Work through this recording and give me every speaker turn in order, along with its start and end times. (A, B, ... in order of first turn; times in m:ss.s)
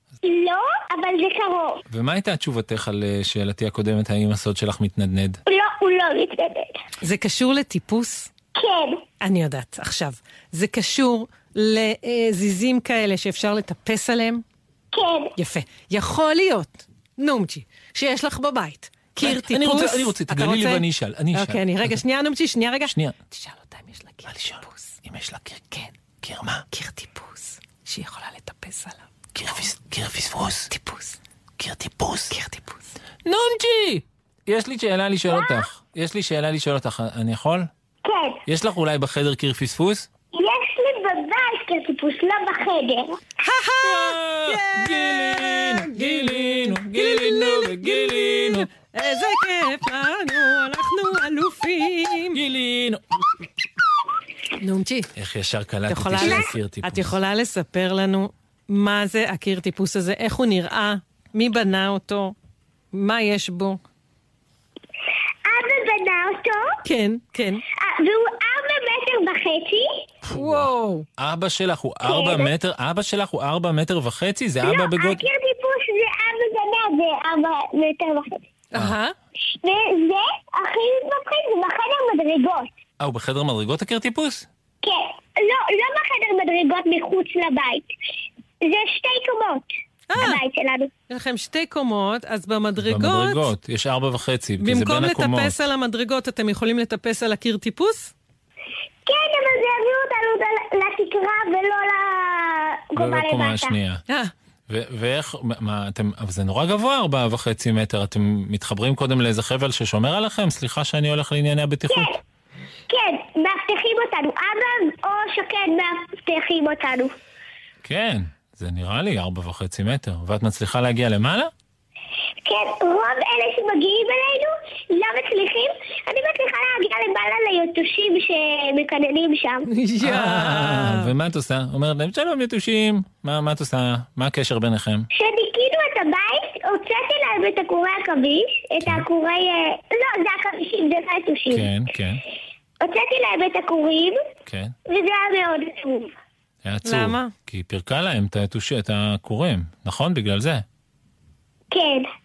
0:00.2-0:01.8 A
0:01.9-0:05.4 B
0:05.5-0:06.8 A
0:07.0-0:08.3 C
0:08.6-0:09.0 A
0:09.2-0:14.4 C
0:14.9-0:15.3 A
0:15.4-0:24.9 C
0:19.2-0:22.0 B
0:22.9-0:23.2 B
0:24.3-0:26.6 B
0:26.7-0:29.6 C
0:29.4-0:30.7 B
0:30.7-0:31.2 C
0:31.6-0:32.4 B
0:32.3-0:32.9 C
0:33.2-0:37.7 B
0:38.0-0:38.4 A
0:38.5-0:40.1 B
0:40.4-0:43.2 A
0:43.4-0:52.4 C
0:43.8-0:48.7 B
0:52.3-0:53.0 B
0:54.6-0:55.1 C
0:55.2-0:57.1 B
0:55.9-1:02.3 C
1:02.9-1:03.8 C
1:05.5-1:06.8 A
1:06.8-1:07.6 C
1:07.8-1:10.0 A
1:10.2-1:15.3 B
1:10.4-1:11.1 C
1:12.0-1:12.5 A
1:14.6-1:18.4 A
1:18.7-1:19.1 C
1:19.5-1:22.7 A
1:23.0-1:24.5 B
1:24.8-1:27.9 A
1:28.6-1:30.9 A
1:30.1-1:30.4 C
1:31.1-1:33.5 C
1:32.8-1:35.5 B
1:34.6-1:38.1 C
1:39.1-1:43.8 A
1:43.0-1:44.0 B
1:44.7-1:52.2 B
1:51.9-1:52.2 A
1:52.9-1:57.1 A
1:57.8-2:01.5 B
2:02.4-2:09.7 A
2:09.7-2:11.1 C
2:10.0-2:15.1 B
2:15.1-2:21.7 A
2:21.5-2:22.2 B
2:22.8-2:24.2 A
2:24.5-2:24.7 B
2:24.9-2:26.1 A
2:26.6-2:30.6 B
2:26.9-2:27.3 C
2:31.7-2:32.1 A